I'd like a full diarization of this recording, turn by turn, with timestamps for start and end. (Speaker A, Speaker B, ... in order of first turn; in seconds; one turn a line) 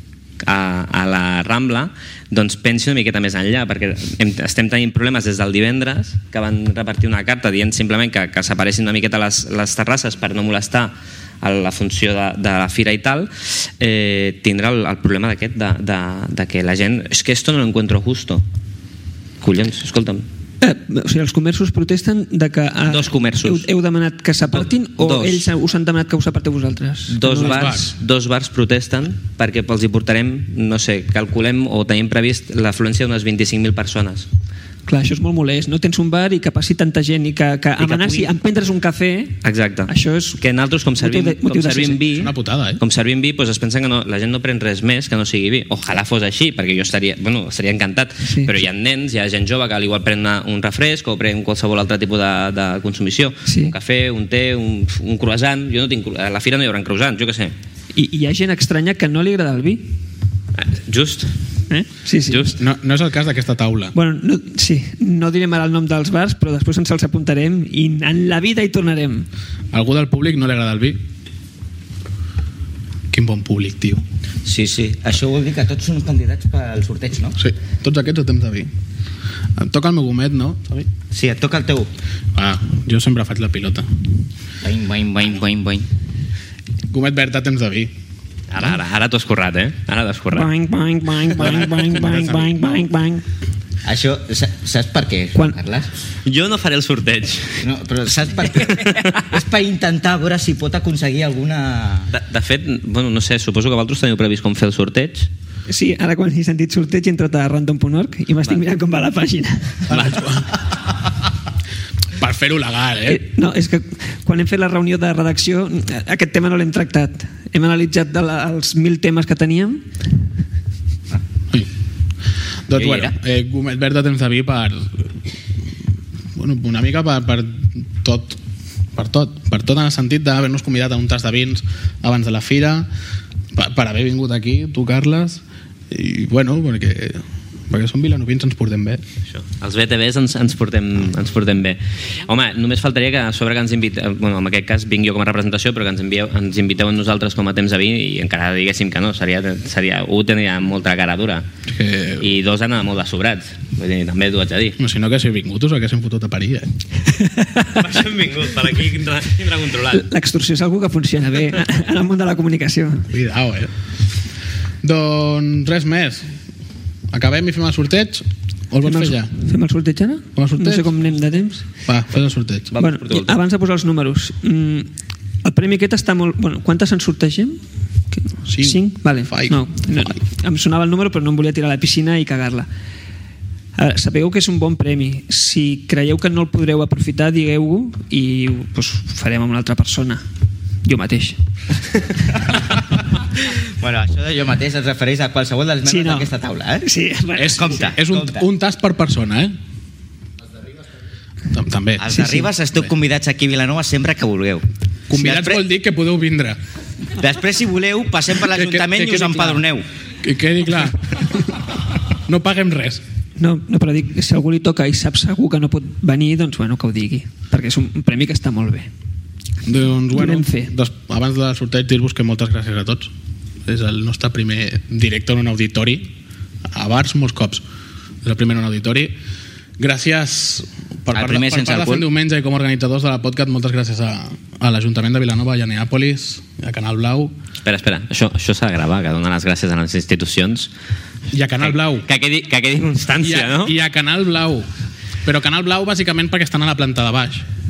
Speaker A: 0.4-18.4
Speaker A: 19.4-20.3
Speaker B: 20.6-27.9
Speaker A: 22.9-23.7
Speaker A: 24.5-25.5
Speaker A: 27.1-34.3
Speaker C: 27.4-27.9
Speaker B: 34.9-40.4
Speaker A: 37.8-38.3
Speaker A: 39.4-57.5
Speaker B: 41.0-42.0
Speaker C: 42.1-42.8
Speaker B: 48.3-48.5
Speaker B: 53.5-53.7
Speaker B: 57.9-60.0
Speaker A: 60.6-61.3
Speaker B: 61.7-62.5
Speaker A: 62.3-62.6
Speaker C: 62.6-63.9
Speaker B: 64.0-69.3
Speaker C: 69.7-71.0
Speaker C: 73.1-74.0
Speaker D: 74.5-77.4
Speaker C: 77.4-78.7
Speaker C: 79.6-80.9
Speaker D: 81.1-81.9
Speaker C: 82.4-83.9
Speaker D: 84.6-85.9
Speaker C: 86.9-87.9
Speaker A: 88.5-90.5
Speaker B: 90.3-93.2
Speaker C: 91.4-92.8
Speaker D: 93.8-95.9
Speaker A: 96.2-97.6
Speaker D: 97.6-102.1
Speaker A: 98.7-99.2
Speaker A: 102.1-105.3
Speaker B: 105.7-110.0
Speaker C: 109.9-110.6
Speaker C: 112.2-113.2
Speaker B: 113.1-119.9
Speaker C: 122.7-125.1
Speaker D: 122.8-123.1
Speaker C: 126.4-128.4
Speaker C: 128.9-132.9
Speaker C: 133.5-139.0
Speaker A: 139.3-151.5
Speaker C: 151.7-152.3
Speaker A: 152.2-154.8
Speaker C: 154.8-156.7
Speaker A: 157.6-160.0
Speaker B: 159.9-163.1
Speaker C: 163.1-163.7
Speaker C: 164.8-166.3
Speaker C: 167.1-169.3
Speaker B: 168.8-171.7
Speaker C: 170.4-171.0
Speaker C: 171.9-172.7
Speaker A: 172.8-173.3
Speaker B: 172.8-174.9
Speaker B: 175.4-177.6
Speaker B: 178.2-182.7
Speaker C: 178.5-180.1
Speaker B: 183.8-190.2
Speaker B: 190.8-191.4
Speaker D: 193.8-196.9
Speaker B: 195.8-196.3
Speaker B: 196.8-197.9
Speaker C: 197.4-199.6
Speaker D: 197.5-198.4
Speaker C: 201.5-202.4
Speaker D: 202.0-205.6
Speaker B: 202.2-202.4
Speaker C: 205.1-206.6
Speaker D: 207.2-209.8
Speaker C: 208.5-209.6
Speaker C: 210.2-211.7
Speaker C: 212.3-213.0
Speaker B: 213.4-218.9
Speaker C: 219.7-223.1
Speaker B: 220.1-220.7
Speaker C: 223.7-226.1
Speaker C: 226.7-227.6
Speaker C: 228.2-229.2
Speaker C: 229.8-237.3
Speaker D: 231.1-232.1
Speaker A: 237.6-240.7
Speaker C: 241.3-242.1
Speaker A: 241.6-243.8
Speaker C: 243.2-244.7
Speaker C: 245.2-247.5